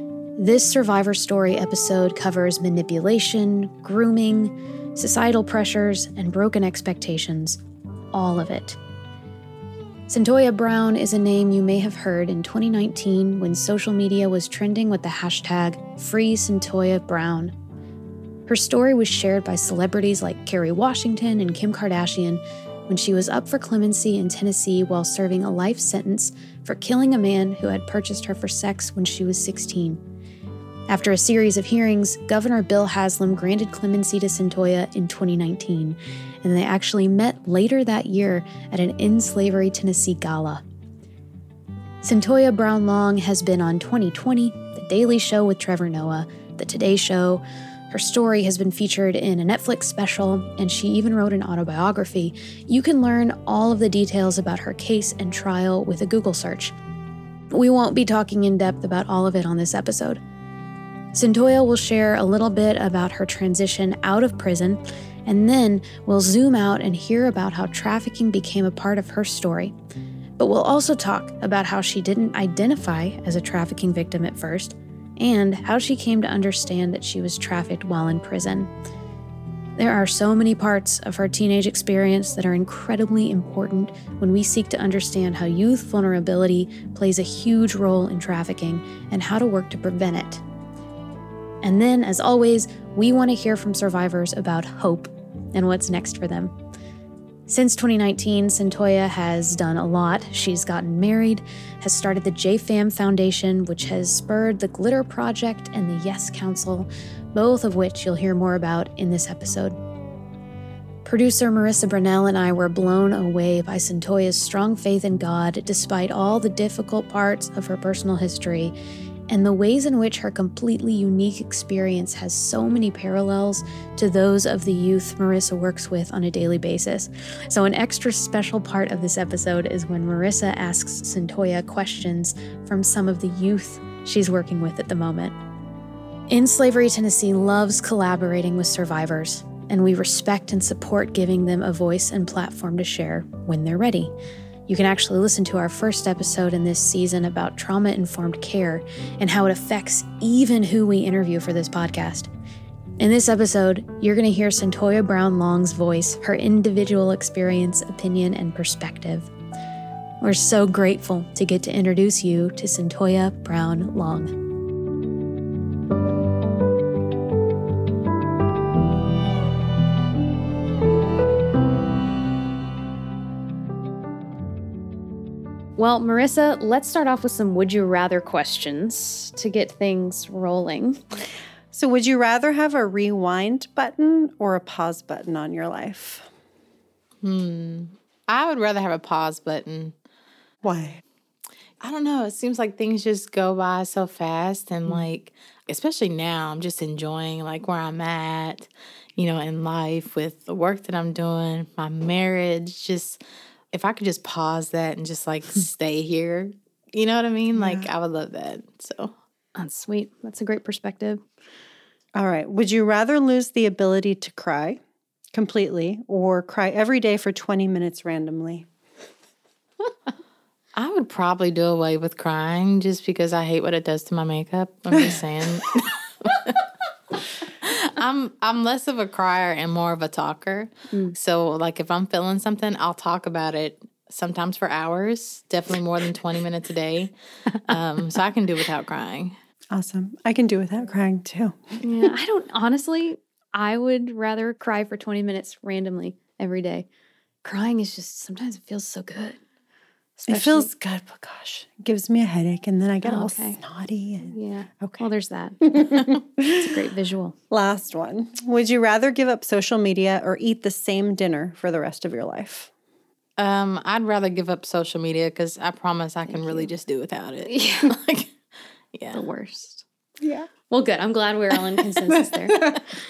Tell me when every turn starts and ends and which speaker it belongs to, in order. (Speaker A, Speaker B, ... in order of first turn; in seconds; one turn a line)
Speaker A: 0.4-7.6
Speaker A: 8.1-8.8
Speaker A: 10.1-17.5
Speaker A: 18.5-30.0
Speaker A: 30.9-40.6
Speaker A: 42.0-56.7
Speaker A: 57.5-60.2
Speaker A: 61.1-69.7
Speaker A: 70.4-78.7
Speaker A: 79.8-90.4
Speaker A: 91.6-96.5
Speaker A: 97.5-109.8
Speaker A: 111.0-118.7
Speaker A: 119.3-135.4
Speaker A: 136.3-144.1
Speaker A: 144.7-152.3
Speaker A: 153.0-159.3
Speaker A: 160.2-164.3
Speaker A: 175.8-181.0
Speaker B: 181.7-186.3
Speaker C: 187.2-189.9
Speaker B: 190.6-191.0
Speaker C: 191.8-203.2
Speaker C: 203.7-209.1
Speaker B: 207.5-207.9
Speaker A: 209.6-211.2
Speaker B: 212.1-214.8
Speaker B: 215.3-218.7
Speaker C: 220.8-226.6
Speaker C: 227.1-237.1
Speaker C: 237.6-239.3
Speaker B: 239.7-241.8
Speaker A: 241.8-246.9
Speaker A: 247.4-249.4
Speaker A: 250.2-250.7
Speaker B: 250.3-255.0
Speaker A: 253.0-253.6
Speaker A: 254.2-257.4
Speaker B: 255.6-256.5
Speaker B: 257.5-262.7
Speaker C: 263.4-268.3
Speaker A: 266.3-266.7
Speaker A: 267.5-267.9
Speaker C: 268.9-269.2
Speaker A: 269.1-269.8
Speaker B: 270.2-270.5
Speaker A: 270.7-272.8
Speaker B: 272.1-272.9